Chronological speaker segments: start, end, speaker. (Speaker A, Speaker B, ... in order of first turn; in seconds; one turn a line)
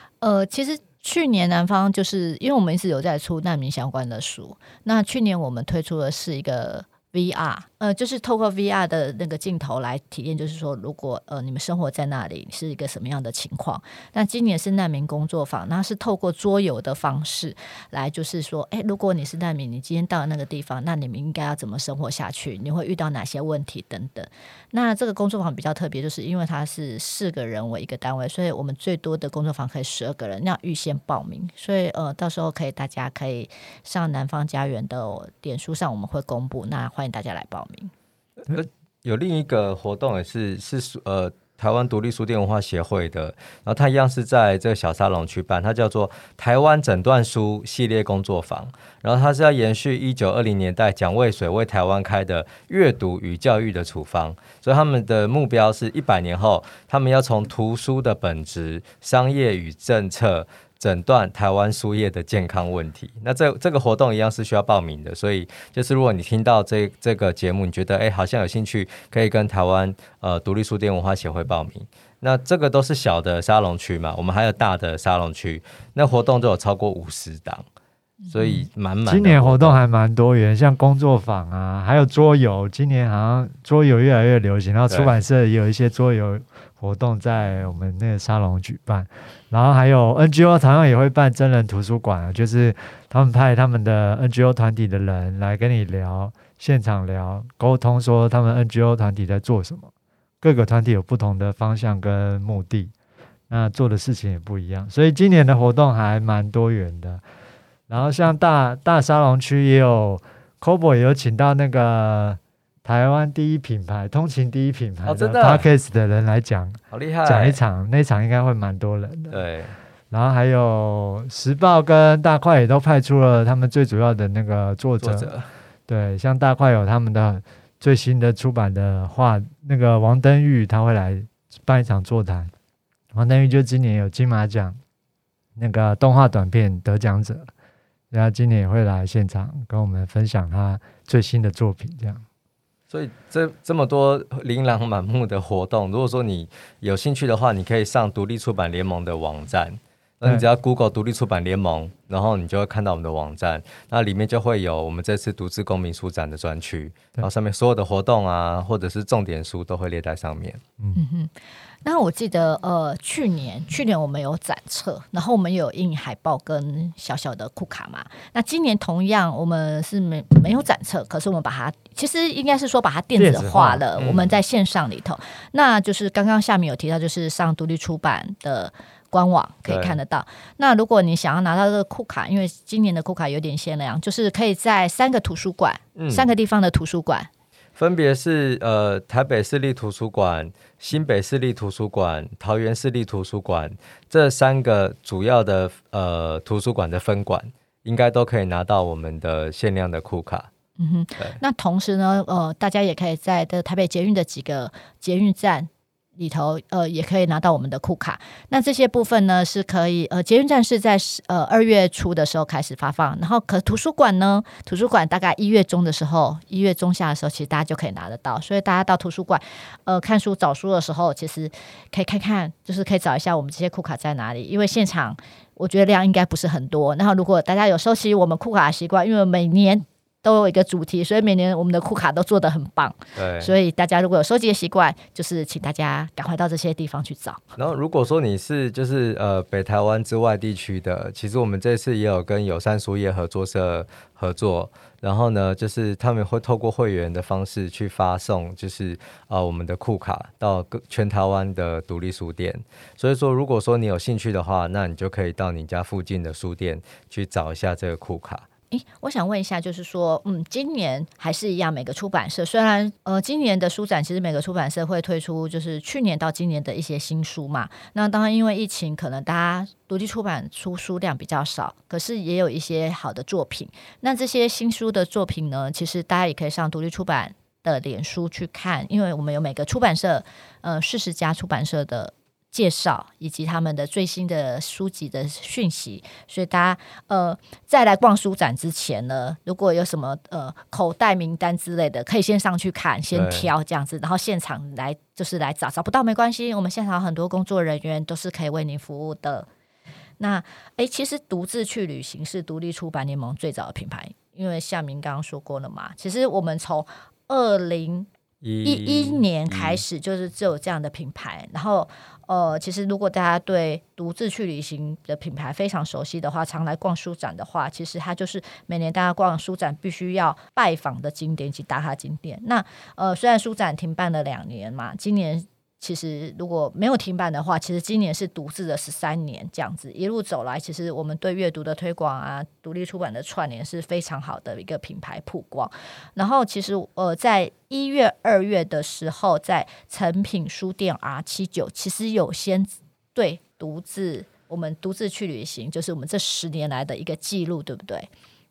Speaker A: 0.2-37.9
Speaker B: 38.4-77.7
Speaker A: 78.2-78.7
Speaker B: 78.3-79.8
Speaker C: 79.1-99.9
Speaker C: 100.4-102.9
Speaker C: 103.5-107.2
Speaker C: 107.9-119.4
Speaker B: 115.1-115.7
Speaker B: 116.9-117.6
Speaker B: 119.3-119.7
Speaker C: 120.1-125.3
Speaker B: 125.0-125.5
Speaker C: 125.9-132.5
Speaker C: 133.1-134.8
Speaker C: 135.6-137.5
Speaker C: 138.1-142.2
Speaker B: 142.9-160.6
Speaker A: 160.9-161.3
Speaker A: 161.8-187.3
Speaker C: 173.2-173.8
Speaker B: 174.0-174.4
Speaker B: 179.7-180.0
Speaker B: 186.0-186.3
Speaker B: 187.8-200.5
Speaker A: 200.8-237.4
Speaker B: 233.2-233.5
Speaker B: 237.6-258.5
Speaker A: 258.7-299.5
Speaker B: 293.1-293.5
Speaker A: 300.2-308.1
Speaker B: 308.4-309.8
Speaker A: 308.6-348.1